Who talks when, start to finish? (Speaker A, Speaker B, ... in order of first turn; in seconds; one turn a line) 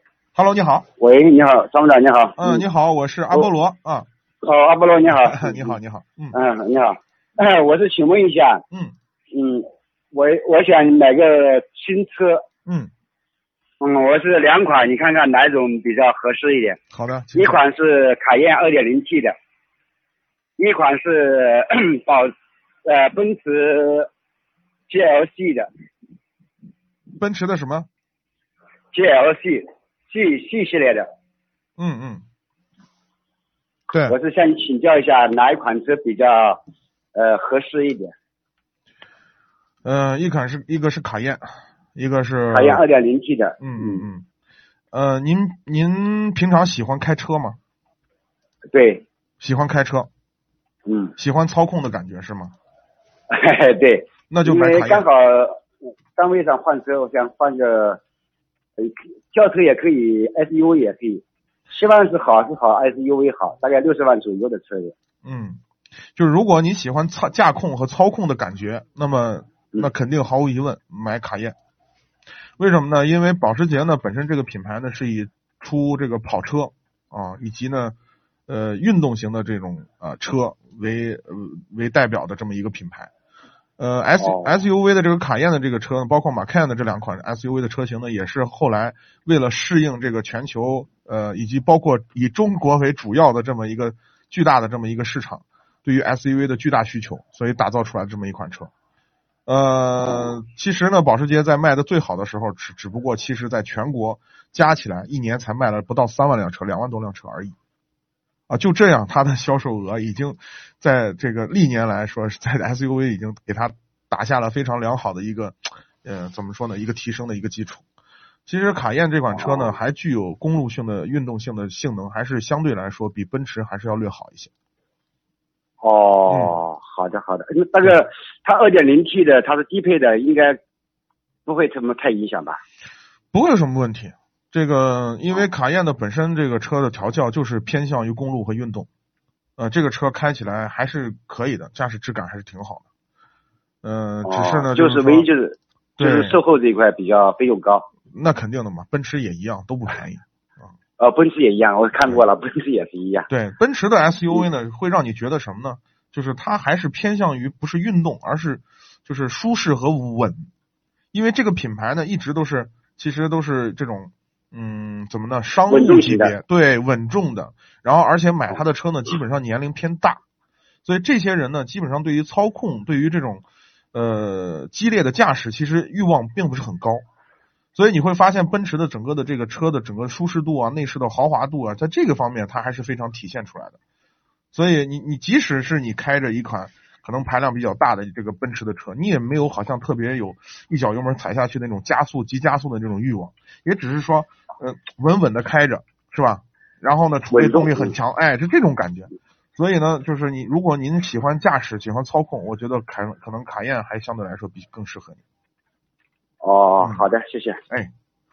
Speaker A: 0.3-0.9
Speaker B: 1.0-2.6
Speaker A: 2.4-4.1
Speaker B: 4.4-5.8
Speaker A: 5.1-6.3
Speaker B: 6.3-8.6
Speaker B: 9.3-12.4
Speaker B: 13.8-16.8
Speaker A: 16.9-17.6
Speaker B: 17.3-19.3
Speaker B: 20.6-22.3
Speaker B: 22.8-24.1
Speaker B: 24.9-25.7
Speaker A: 27.1-27.9
Speaker B: 28.9-31.1
Speaker A: 31.8-32.2
Speaker A: 33.9-34.1
Speaker B: 34.1-36.6
Speaker B: 37.1-38.1
Speaker A: 39.8-42.8
Speaker B: 42.5-44.1
Speaker A: 43.6-44.2
Speaker A: 44.9-47.6
Speaker B: 48.7-49.0
Speaker A: 49.4-50.1
Speaker B: 50.9-51.1
Speaker A: 51.2-52.5
Speaker B: 53.3-55.6
Speaker A: 54.3-55.0
Speaker B: 56.1-58.0
Speaker B: 58.8-64.9
Speaker A: 65.2-65.6
Speaker A: 66.2-71.5
Speaker A: 72.6-77.9
Speaker A: 78.5-83.1
Speaker A: 83.8-98.7
Speaker B: 84.2-84.5
Speaker A: 99.5-107.5
Speaker A: 108.5-117.8
Speaker A: 118.5-124.5
Speaker B: 119.4-119.8
Speaker B: 125.8-130.6
Speaker A: 126.3-126.5
Speaker B: 131.4-132.6
Speaker A: 133.3-138.9
Speaker A: 139.6-142.8
Speaker A: 143.8-145.3
Speaker B: 144.2-147.8
Speaker A: 146.0-146.3
Speaker A: 148.1-150.7
Speaker B: 151.0-153.3
Speaker A: 153.3-160.5
Speaker A: 161.1-170.2
Speaker B: 165.7-166.3
Speaker A: 170.8-177.0
Speaker A: 177.7-183.8
Speaker A: 184.5-205.2
Speaker B: 197.3-197.9
Speaker B: 206.4-207.6
Speaker A: 206.8-207.1